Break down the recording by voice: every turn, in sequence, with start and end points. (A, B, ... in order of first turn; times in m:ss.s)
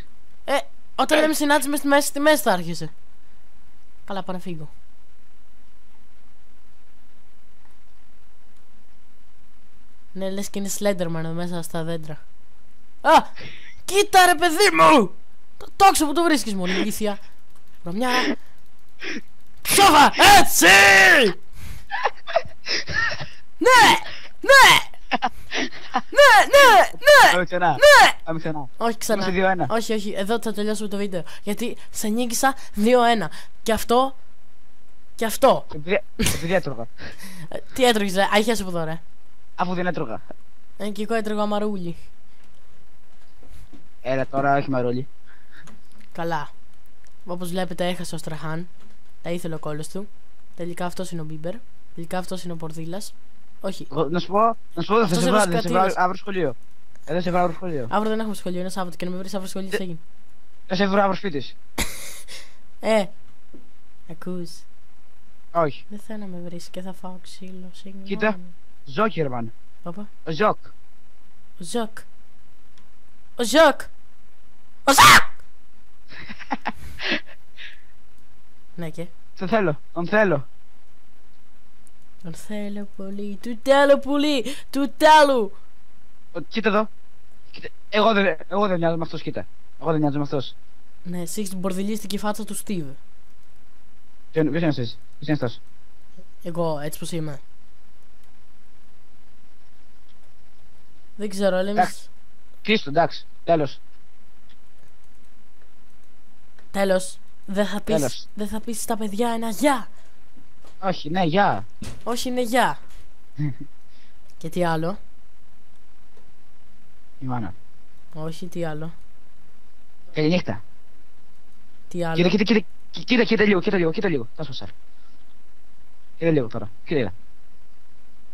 0:00.5-0:02.9 A
0:04.0-0:04.7 A
0:10.1-0:12.2 A
0:13.0-0:13.3 A
0:13.8-0:17.2 A
0:17.8-0:18.3 A
0:19.6-0:21.4 A
0:23.6-0:24.9 A
0:25.2-0:26.0 B
0:26.1-0:28.2 A
0:27.2-0:29.7 B
0:28.8-0:34.2 A
0:35.2-0:35.7 A
0:35.7-0:36.9 B
0:37.4-0:39.0 A
0:39.6-0:40.2 B
0:40.8-0:42.0 A
0:44.0-0:45.1 B
0:46.1-0:46.5 A
0:47.2-0:48.7 A
0:49.2-0:53.9 A
0:53.9-0:56.6 B
0:55.0-0:56.0 A
0:57.1-0:57.9 B
0:57.9-1:00.0 A
1:00.7-1:01.5 B
1:02.8-1:03.1 A
1:04.1-1:04.6 A
1:05.5-1:05.8 B
1:05.9-1:08.5 A
1:08.1-1:09.5 B
1:10.2-1:10.7 B
1:11.6-1:12.0 A
1:13.4-1:13.9 A
1:14.8-1:15.3 A
1:18.8-1:19.1 A
1:19.4-1:20.4 B
1:22.2-1:25.5 A
1:26.3-1:26.9 B
1:27.5-1:30.5 B
1:31.0-1:33.0 A
1:34.3-1:35.6 B
1:36.4-1:37.4 A
1:41.2-1:42.1 A
1:42.6-1:43.8 B
1:46.7-1:49.9 A
1:47.9-1:48.2 B
1:50.8-1:51.6 B
1:52.0-1:52.8 A
1:54.4-1:55.0 A
1:57.2-1:57.5 B
1:58.1-1:58.9 A
2:00.1-2:00.6 B
2:01.9-2:02.4 A
2:02.1-2:04.7 B
2:06.2-2:07.1 B